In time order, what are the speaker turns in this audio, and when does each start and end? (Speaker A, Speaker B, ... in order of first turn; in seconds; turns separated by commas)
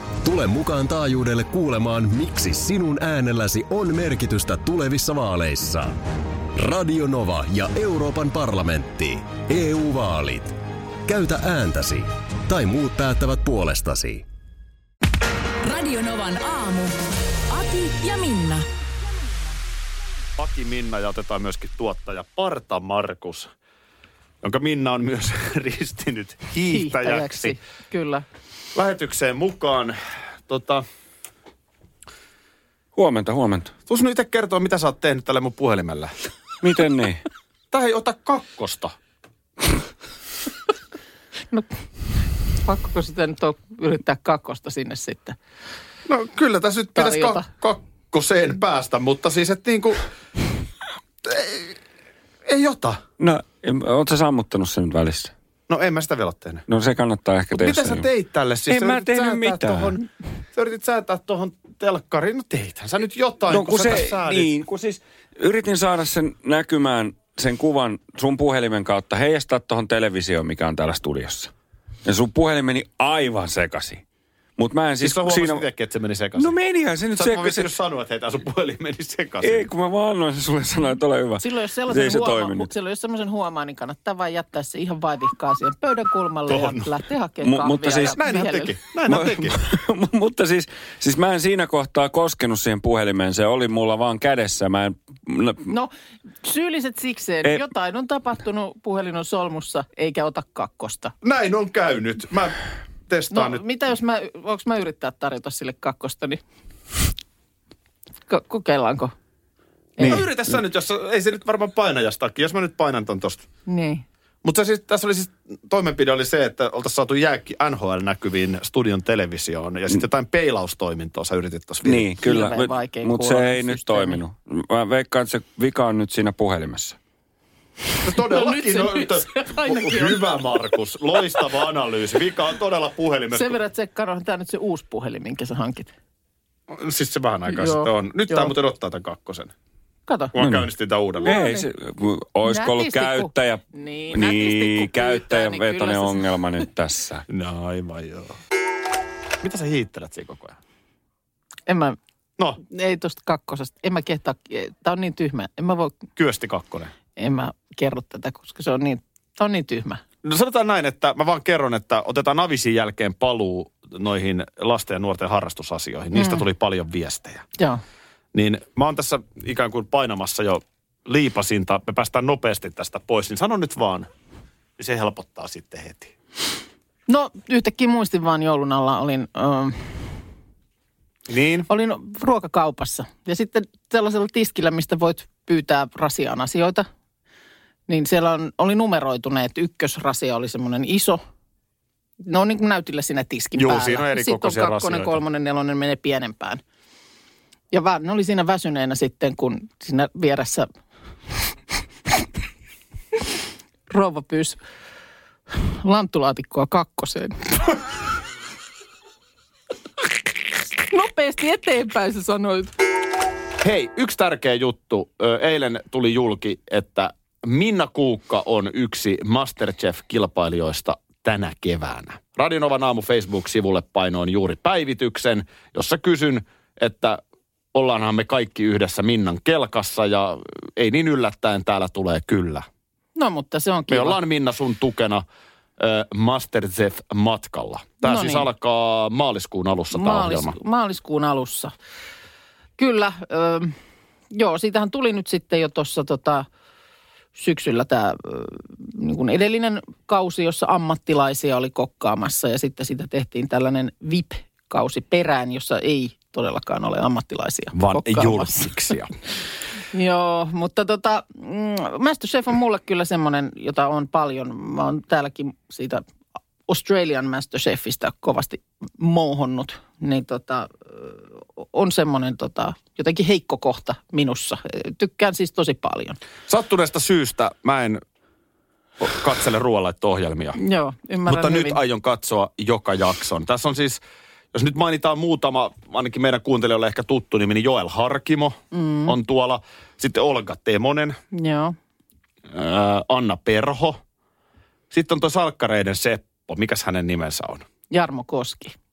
Speaker A: 0.2-6.0, Speaker A: 6.5-14.2, Speaker B: 15.6-16.9, Speaker B: 17.5-18.7, Speaker C: 20.4-23.5, Speaker C: 24.4-27.6, Speaker D: 26.7-28.2, Speaker C: 28.8-30.9, Speaker E: 33.0-33.7, Speaker C: 33.9-36.1, Speaker E: 36.6-37.2, Speaker C: 37.7-39.0, Speaker D: 42.6-45.4, Speaker C: 46.1-50.0, Speaker D: 47.0-47.5, Speaker C: 51.3-51.7, Speaker C: 52.5-53.0, Speaker E: 53.2-55.3, Speaker C: 55.7-56.6, Speaker E: 56.7-58.1, Speaker C: 57.5-64.5, Speaker E: 58.7-60.0, Speaker E: 63.5-71.5, Speaker E: 72.0-74.0, Speaker E: 74.6-75.7, Speaker C: 75.0-76.5, Speaker E: 76.4-77.7, Speaker C: 77.2-79.7, Speaker E: 79.4-82.7, Speaker D: 81.4-88.7, Speaker C: 86.5-86.9, Speaker E: 87.4-88.5, Speaker C: 88.1-89.6, Speaker E: 89.0-95.7, Speaker D: 95.7-95.9, Speaker D: 96.4-101.1, Speaker C: 101.2-103.6, Speaker D: 103.3-106.4, Speaker D: 108.3-109.1, Speaker D: 110.0-110.2, Speaker E: 110.0-110.2, Speaker C: 110.0-113.5, Speaker D: 113.7-114.0, Speaker C: 114.4-122.1, Speaker E: 121.8-127.0, Speaker D: 122.2-124.2, Speaker C: 128.0-133.6, Speaker D: 128.2-130.5, Speaker D: 133.3-135.9, Speaker C: 136.7-139.5, Speaker D: 137.5-138.5, Speaker D: 140.1-140.3, Speaker C: 140.3-141.3, Speaker E: 140.4-140.7, Speaker D: 141.2-141.7, Speaker E: 141.2-147.3, Speaker D: 142.4-146.3, Speaker C: 147.3-148.4, Speaker C: 149.4-150.6, Speaker D: 151.7-152.0, Speaker D: 152.6-155.9, Speaker C: 156.2-156.9, Speaker D: 157.2-160.0, Speaker C: 160.2-167.5, Speaker D: 166.2-166.4, Speaker C: 168.3-174.1, Speaker C: 174.8-176.1, Speaker D: 177.1-180.1, Speaker C: 181.3-181.7, Speaker D: 181.7-186.9, Speaker D: 187.9-191.2, Speaker D: 192.2-196.6, Speaker C: 193.6-195.2, Speaker D: 197.7-200.7, Speaker D: 203.9-204.6, Speaker D: 205.6-207.5, Speaker D: 210.9-212.7, Speaker C: 213.6-227.2, Speaker C: 227.7-232.7, Speaker D: 233.2-234.2, Speaker C: 233.9-235.2, Speaker C: 235.8-240.6, Speaker D: 238.0-238.5, Speaker D: 239.9-241.7, Speaker D: 242.8-243.8, Speaker D: 244.3-246.5, Speaker D: 247.3-258.7, Speaker C: 257.7-259.1, Speaker D: 259.9-266.1, Speaker D: 266.7-276.2, Speaker C: 276.5-278.0, Speaker C: 279.0-280.6, Speaker D: 280.6-281.8, Speaker C: 281.3-284.0, Speaker C: 284.5-291.2, Speaker D: 288.7-289.1, Speaker D: 291.3-291.8, Speaker C: 292.5-294.0, Speaker C: 294.9-297.7, Speaker D: 297.9-298.8